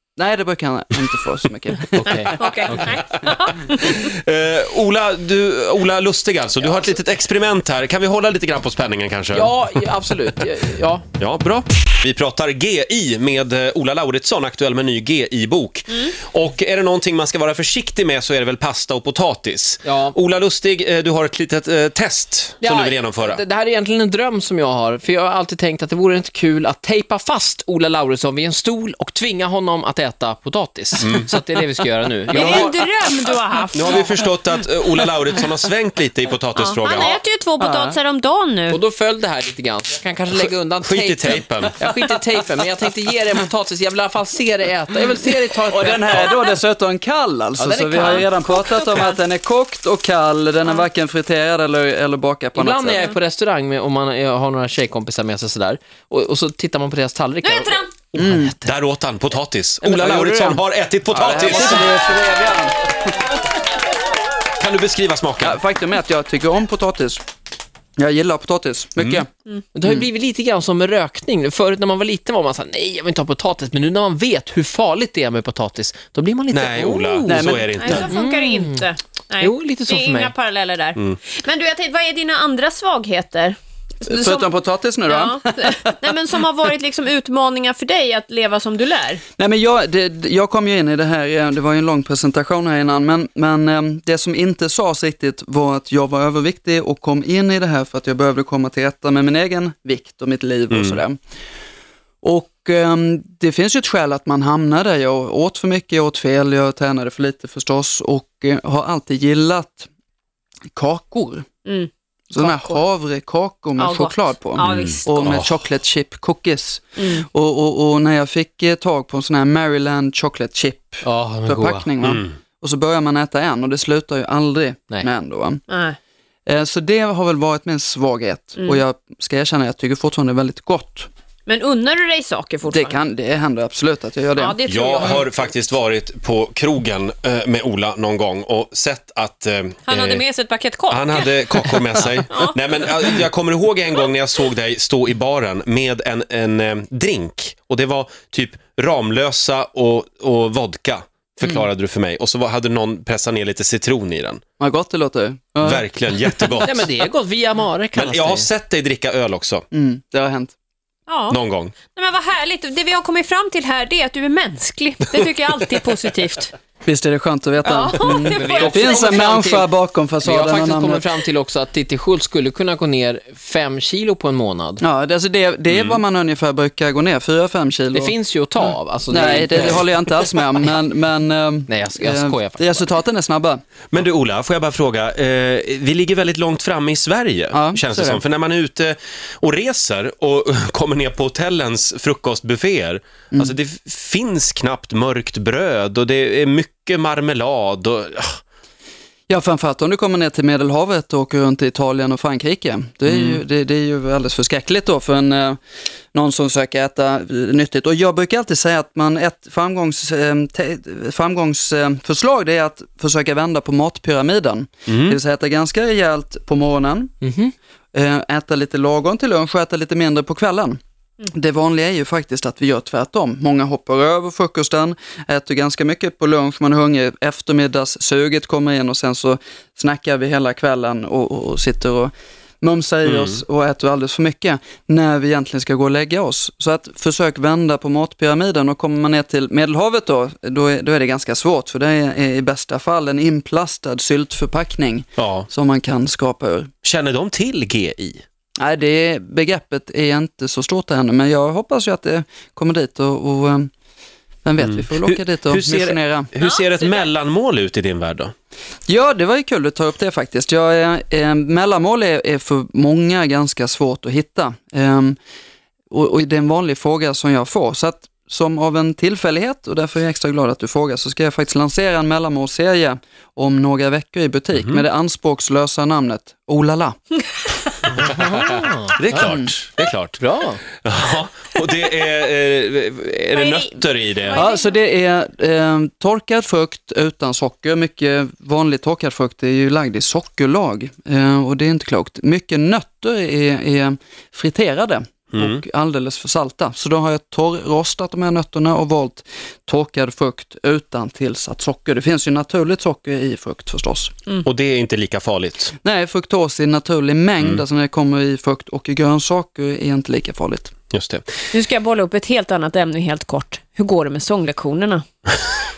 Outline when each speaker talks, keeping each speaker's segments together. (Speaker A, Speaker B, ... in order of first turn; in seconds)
Speaker A: 0.2-2.4, 37.6-38.0, 45.6-53.1, 58.2-58.5, 61.1-63.0, 65.4-67.2, 68.0-69.3, 77.2-77.7, 84.0-85.9, 89.4-101.2, 102.2-109.9, 110.8-111.5, 112.3-125.6, 126.5-131.1, 132.7-134.6, 154.6-155.9, 159.7-160.5, 166.8-171.1, 174.8-178.2, 179.1-183.6, 187.5-188.0, 199.3-205.6, 206.1-217.1, 217.9-246.7, 248.6-253.7, 254.4-256.3, 258.9-265.2, 265.9-277.2, 279.3-279.5, 284.3-304.1, 305.8-310.7
Speaker B: 2.0-3.0, 9.3-11.0, 19.8-20.1, 22.6-32.8, 38.7-46.5, 47.6-48.4, 52.5-58.5, 59.8-60.6, 61.5-61.8, 69.7-78.9, 79.4-80.3, 121.0-122.2, 156.6-158.5, 167.9-174.8, 177.9-180.2, 181.7-182.9, 217.2-217.5, 278.1-279.3, 280.2-280.6
Speaker C: 2.3-4.0, 32.3-34.2, 36.6-38.8, 48.0-49.2, 52.9-53.2, 57.4-57.9, 77.8-84.5, 85.0-89.2, 111.6-112.8, 113.8-115.4, 117.0-117.2, 125.7-126.0, 131.5-133.0, 134.3-135.5, 139.9-142.5, 161.1-166.5, 167.6-169.0, 256.4-257.1, 283.3-284.8, 311.5-315.0
Speaker D: 2.7-9.5, 11.2-23.4, 31.0-31.3, 32.3-32.7, 33.7-37.2, 40.4-41.8, 58.1-61.9, 64.6-65.6, 69.0-69.2, 76.5-78.1, 100.7-101.0, 114.6-115.5, 134.7-140.2, 140.9-154.4, 155.6-156.9, 157.9-159.6, 161.3-161.7, 175.7-176.0, 183.9-198.4, 203.1-203.4, 214.9-215.2, 233.0-233.4, 245.2-245.5, 246.8-248.2, 254.6-258.3, 274.5-274.8, 278.3-280.2, 280.8-284.4, 295.3-295.6, 304.4-305.7, 310.9-311.2